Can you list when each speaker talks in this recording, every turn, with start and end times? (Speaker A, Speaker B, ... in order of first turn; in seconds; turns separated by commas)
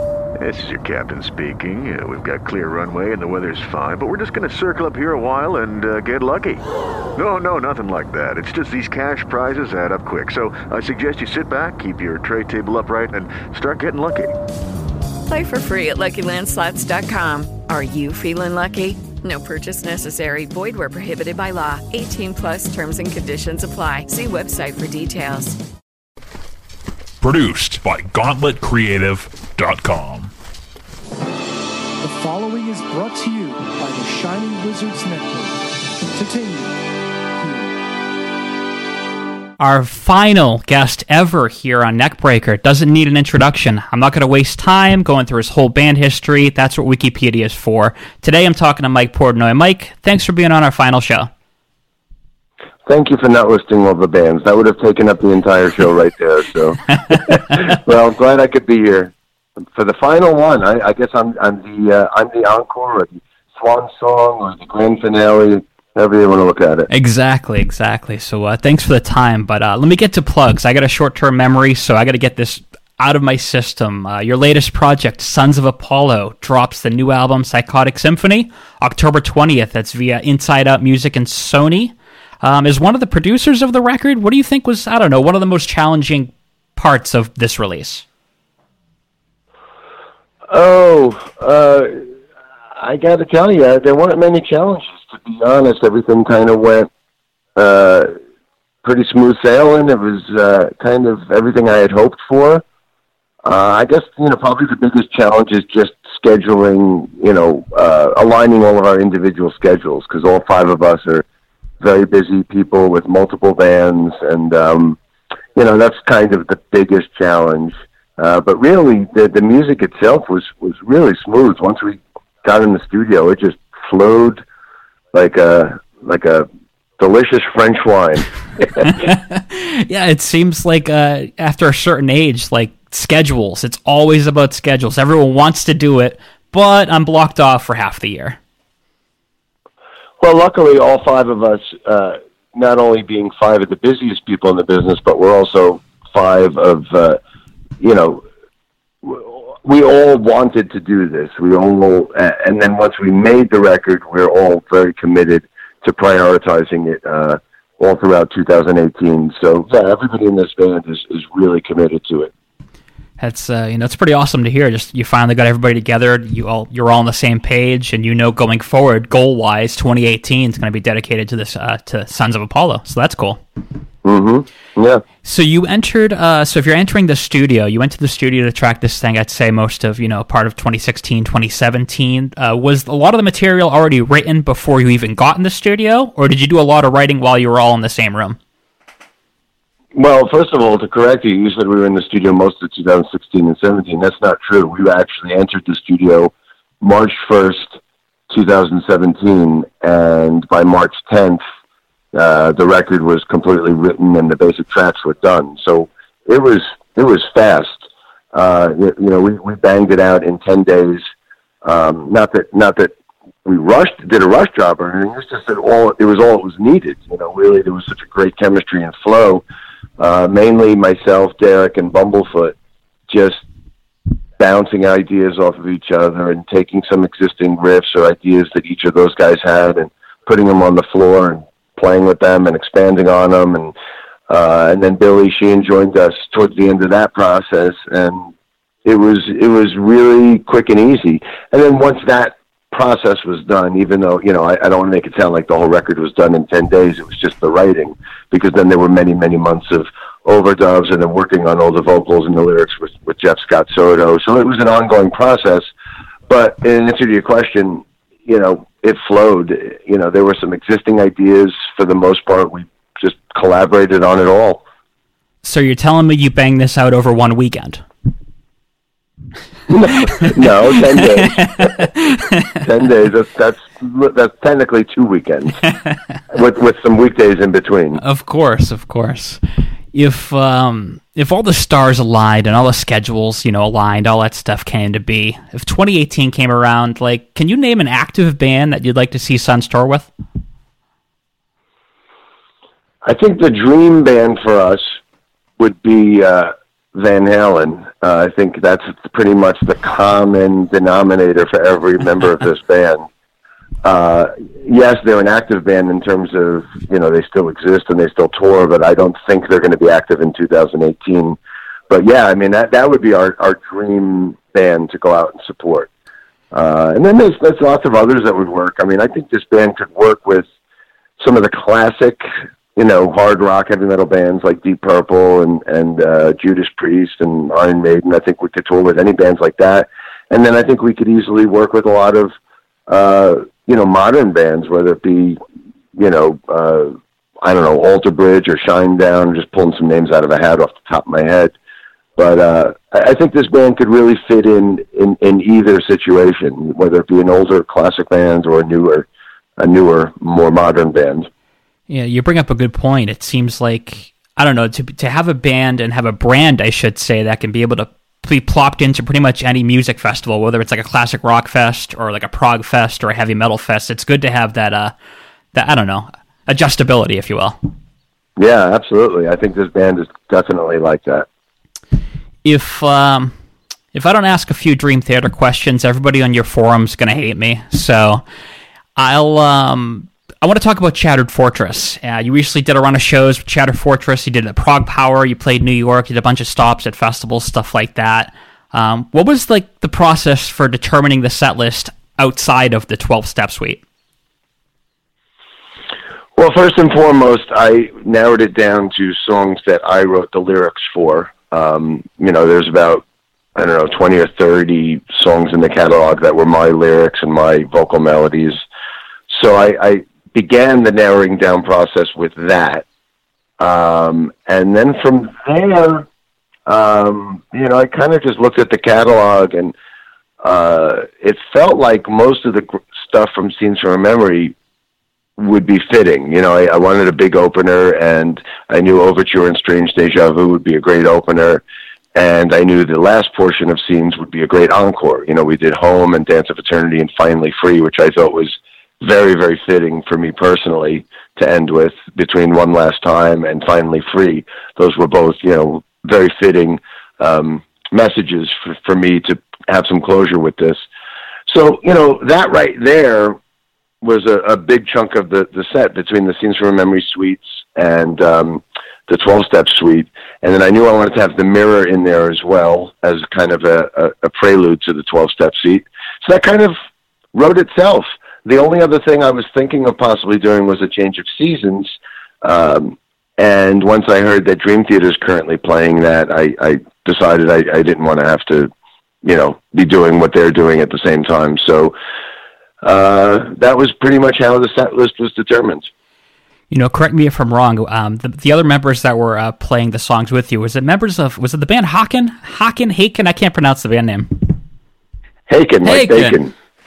Speaker A: 0.4-14.3, Speaker B: 15.3-25.6, Speaker C: 27.2-30.3, Speaker D: 32.0-36.8, Speaker D: 37.4-37.7, Speaker E: 39.6-51.3, Speaker F: 52.9-66.9, Speaker E: 66.9-88.0, Speaker F: 90.5-92.0, Speaker F: 92.8-96.9, Speaker F: 97.5-98.1, Speaker F: 98.8-102.6, Speaker F: 103.4-111.2, Speaker F: 111.8-115.0, Speaker F: 115.5-124.4, Speaker F: 125.1-126.5, Speaker F: 127.0-128.9, Speaker E: 128.8-138.4, Speaker F: 140.2-147.2, Speaker F: 147.8-148.2, Speaker F: 149.0-162.3, Speaker E: 163.2-173.4, Speaker F: 174.0-175.0, Speaker E: 175.2-188.4, Speaker F: 189.9-197.8, Speaker F: 198.3-201.4, Speaker F: 202.1-211.0, Speaker F: 211.6-212.9, Speaker F: 213.4-219.4, Speaker F: 220.0-222.6, Speaker F: 223.1-223.4, Speaker F: 224.4-233.7, Speaker F: 234.3-238.3, Speaker F: 238.8-255.7, Speaker F: 256.3-264.6, Speaker E: 265.4-267.8, Speaker F: 269.7-271.8, Speaker E: 270.9-272.4, Speaker F: 272.6-275.6, Speaker F: 276.3-278.0, Speaker E: 278.0-279.4, Speaker E: 279.9-290.1, Speaker F: 293.0-295.0, Speaker F: 295.6-303.1, Speaker F: 303.8-311.4, Speaker F: 311.9-315.9, Speaker F: 316.5-320.5, Speaker F: 321.2-322.2, Speaker F: 322.8-332.3, Speaker F: 332.9-335.4, Speaker F: 335.9-341.5, Speaker F: 342.2-349.1, Speaker F: 349.6-351.3, Speaker E: 351.9-364.9, Speaker E: 365.5-367.6, Speaker F: 368.4-371.3, Speaker E: 372.4-373.3, Speaker E: 373.9-378.2, Speaker E: 378.9-393.8, Speaker F: 396.4-403.0, Speaker F: 403.6-408.6, Speaker F: 409.3-412.8, Speaker F: 413.6-416.1, Speaker F: 416.6-419.7, Speaker F: 420.4-424.5, Speaker F: 425.4-431.6, Speaker F: 432.1-450.8, Speaker F: 451.5-453.4, Speaker F: 454.0-466.8, Speaker F: 467.3-478.7, Speaker F: 479.2-481.9, Speaker F: 482.8-485.9, Speaker E: 486.7-494.6, Speaker F: 495.5-496.5, Speaker E: 495.8-496.4